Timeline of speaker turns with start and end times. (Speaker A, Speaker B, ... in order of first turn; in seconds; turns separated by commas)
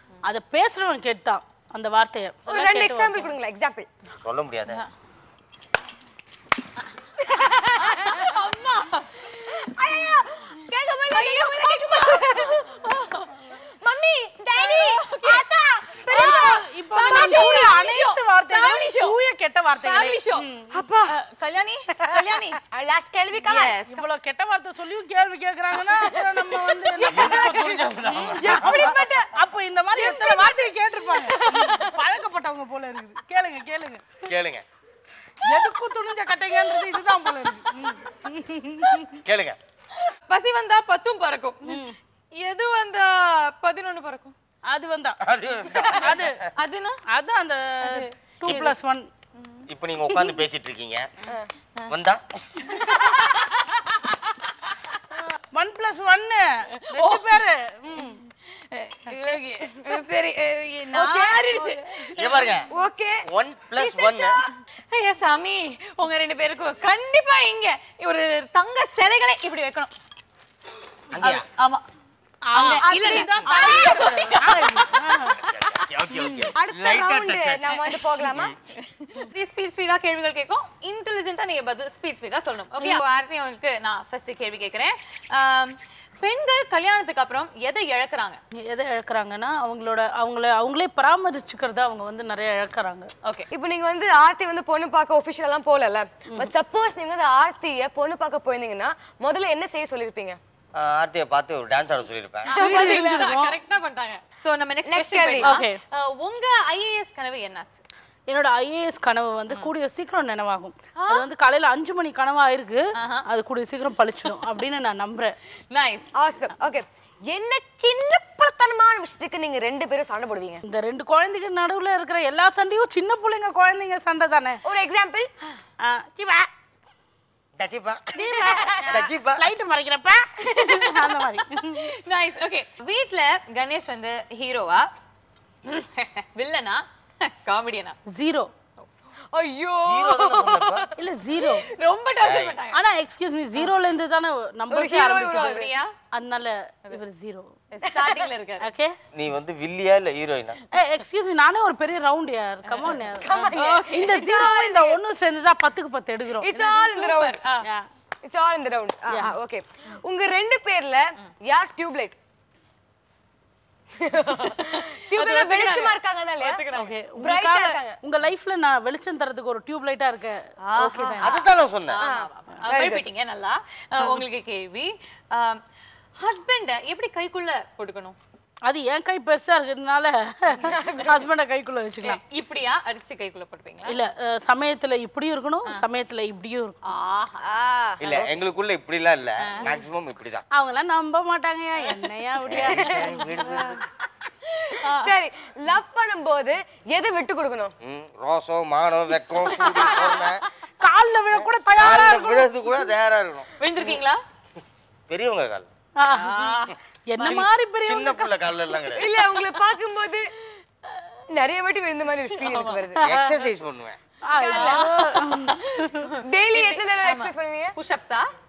Speaker A: 0.2-3.3, Speaker B: 2.5-3.9, Speaker C: 4.2-4.8, Speaker B: 7.3-8.2, Speaker D: 7.8-9.5, Speaker B: 9.5-12.6, Speaker D: 11.1-13.6, Speaker B: 13.6-17.7, Speaker D: 14.6-15.4, Speaker D: 16.1-19.2, Speaker A: 16.1-20.7, Speaker D: 19.7-20.5, Speaker B: 20.7-21.2, Speaker D: 21.1-22.6, Speaker A: 22.1-22.4, Speaker B: 22.7-23.7, Speaker D: 23.5-24.0, Speaker A: 23.9-34.3, Speaker B: 25.8-27.6, Speaker C: 27.1-28.8, Speaker B: 28.4-29.3, Speaker B: 30.0-30.6, Speaker B: 31.1-32.0, Speaker C: 34.3-34.6, Speaker A: 35.4-39.2, Speaker C: 39.2-39.6, Speaker D: 40.0-41.9, Speaker A: 41.7-42.0, Speaker D: 42.4-44.3, Speaker A: 44.7-45.2, Speaker C: 45.2-46.4, Speaker A: 45.7-46.4, Speaker D: 46.6-47.0, Speaker A: 47.1-49.1, Speaker D: 47.8-48.8, Speaker D: 49.4-50.4, Speaker C: 49.7-51.1, Speaker D: 51.3-51.9, Speaker C: 51.9-52.2, Speaker D: 52.6-54.4, Speaker A: 55.5-58.2, Speaker D: 56.9-62.6, Speaker B: 60.9-61.7, Speaker A: 61.6-62.3, Speaker C: 62.2-62.7, Speaker B: 62.7-63.2, Speaker C: 63.3-64.3, Speaker B: 63.8-64.5, Speaker D: 64.9-69.9, Speaker C: 71.1-71.5, Speaker D: 71.2-71.8, Speaker A: 72.5-75.4, Speaker D: 72.5-75.8, Speaker B: 72.8-74.2, Speaker C: 75.4-78.6, Speaker A: 76.1-76.5, Speaker B: 76.5-78.5, Speaker D: 79.0-88.4, Speaker A: 88.5-93.1, Speaker B: 93.5-100.4, Speaker C: 100.8-102.5, Speaker D: 102.5-107.8, Speaker A: 102.6-103.6, Speaker B: 102.6-103.3, Speaker B: 104.9-105.6, Speaker A: 105.4-105.8, Speaker A: 108.3-115.3, Speaker D: 111.0-111.3, Speaker D: 113.0-113.2, Speaker D: 115.7-116.1, Speaker B: 116.2-120.6, Speaker A: 120.6-124.6, Speaker B: 124.6-125.3, Speaker A: 125.8-126.5, Speaker C: 127.6-128.1, Speaker A: 128.2-131.9, Speaker B: 128.4-129.1, Speaker C: 128.9-129.5, Speaker D: 130.5-134.9, Speaker D: 135.7-138.0, Speaker A: 138.1-138.5, Speaker B: 139.3-140.9, Speaker C: 139.9-140.9, Speaker A: 141.0-141.7, Speaker D: 141.4-142.8, Speaker C: 142.2-142.6, Speaker A: 142.7-147.5, Speaker B: 144.7-145.7, Speaker D: 145.2-145.9, Speaker D: 147.7-148.7, Speaker B: 147.8-148.3, Speaker A: 148.6-148.9, Speaker C: 149.1-150.6, Speaker A: 150.7-157.0, Speaker D: 152.7-153.0, Speaker B: 153.2-155.0, Speaker D: 153.5-154.1, Speaker B: 156.4-157.3, Speaker D: 157.0-157.7, Speaker B: 158.2-162.2, Speaker B: 164.0-166.6, Speaker D: 164.6-166.9, Speaker A: 166.7-171.4, Speaker B: 167.2-168.0, Speaker D: 170.7-175.6, Speaker C: 171.2-172.0, Speaker B: 172.0-173.1, Speaker D: 176.2-178.2, Speaker A: 178.7-182.2, Speaker B: 180.7-181.1, Speaker D: 182.0-184.0, Speaker A: 183.9-186.8, Speaker D: 186.9-187.4, Speaker B: 187.4-188.0, Speaker C: 188.0-190.4, Speaker D: 189.5-189.8, Speaker A: 190.5-193.8, Speaker C: 192.5-193.8, Speaker B: 192.5-193.0, Speaker D: 192.8-193.1, Speaker D: 194.6-195.0, Speaker B: 194.8-197.7, Speaker C: 197.8-200.4, Speaker A: 199.5-202.9, Speaker C: 201.3-203.9, Speaker D: 203.6-204.2, Speaker C: 205.1-205.7, Speaker A: 206.0-208.3, Speaker D: 206.1-206.7, Speaker C: 207.2-209.1, Speaker B: 208.9-210.3, Speaker B: 211.3-213.0, Speaker D: 212.5-212.8, Speaker C: 213.1-214.0, Speaker A: 213.1-213.4, Speaker A: 214.2-216.1, Speaker B: 214.3-215.1, Speaker D: 214.5-218.3, Speaker B: 216.2-217.8